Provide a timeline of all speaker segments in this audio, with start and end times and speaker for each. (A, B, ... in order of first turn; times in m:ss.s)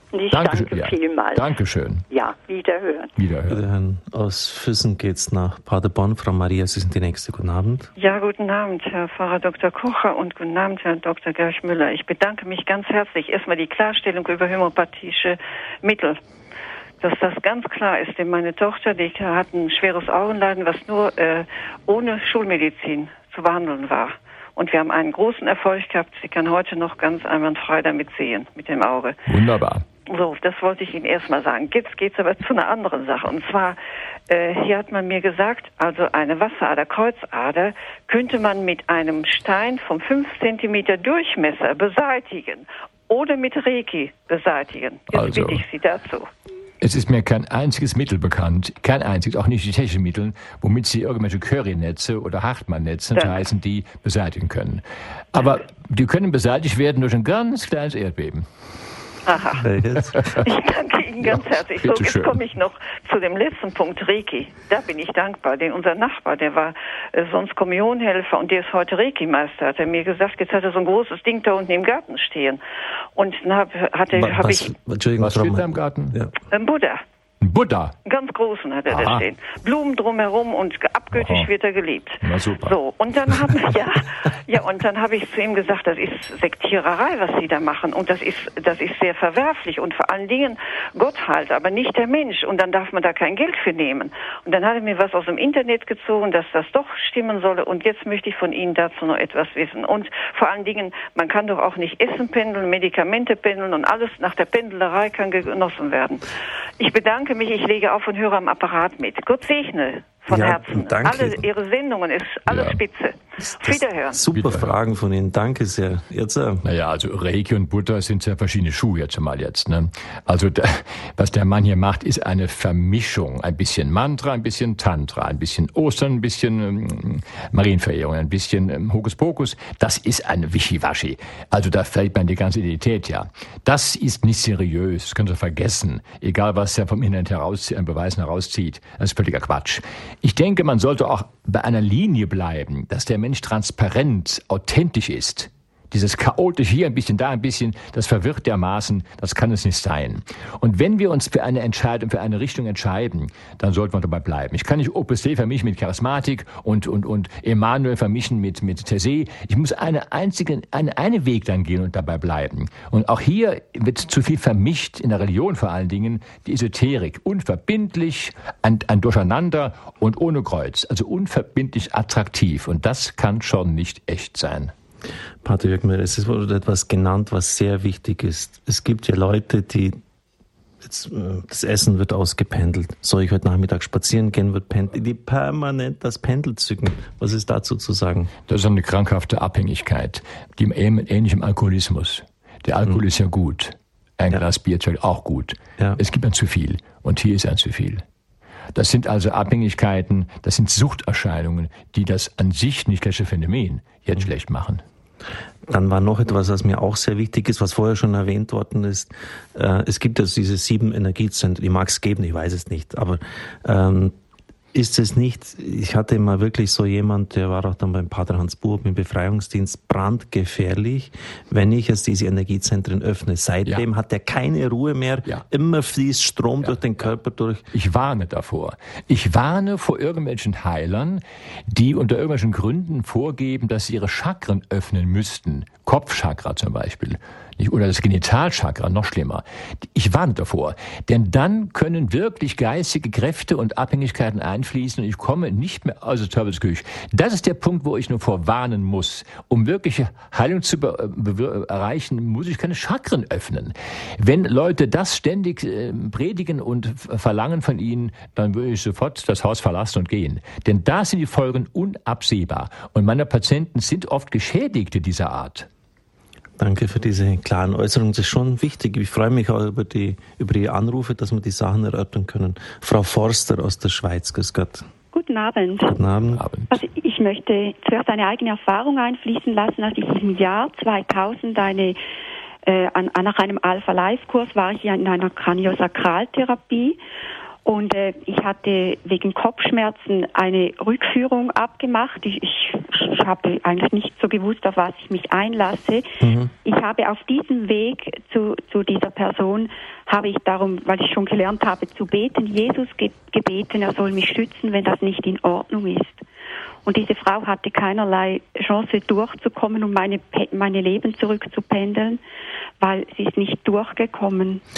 0:00.1-0:01.5 A
0:00.3-0:02.0 B
0:02.1-0:03.1 A
0:03.2-0:03.6 B
0:03.5-0:07.9 C
0:08.0-0:16.2 D
0:17.0-0:29.2 D
0:29.3-0:29.8 B
0:30.1-0:33.8 D
0:34.3-0:46.3 D
0:45.1-0:45.6 B
0:46.8-0:58.5 B
0:53.2-0:53.5 D
0:59.3-0:59.7 D
0:59.6-1:00.4 C
1:00.1-1:00.5 B
1:00.4-1:12.6 D
1:01.2-1:02.4 B
1:13.2-1:14.7 D
1:14.1-1:16.3 C
1:15.2-1:16.2 B
1:16.5-1:17.0 D
1:17.4-1:18.0 B
1:18.1-1:46.2 D
1:18.9-1:19.3 B
1:21.1-1:21.5 B
1:22.2-1:22.8 B
1:46.8-1:54.2 D
1:50.3-1:51.5 C
1:52.5-1:52.8 B
1:53.6-1:56.6 C
1:54.3-1:54.7 B
1:56.6-2:54.7 B
2:55.4-3:00.0 C
3:00.8-3:08.3 C
3:08.5-3:18.0 B
3:18.7-3:24.8 B
3:25.7-3:34.2 C
3:34.7-3:47.7 C
3:47.7-4:25.7 B
4:26.6-4:34.9 C
4:35.1-4:36.0 E
4:35.8-4:36.4 C
4:36.3-4:36.8 B
4:36.7-4:42.0 E
4:42.6-4:47.0 E
4:47.6-4:56.1 E
4:56.2-4:56.5 C
4:56.6-5:06.2 E
5:06.8-5:12.2 E
5:12.8-5:14.6 E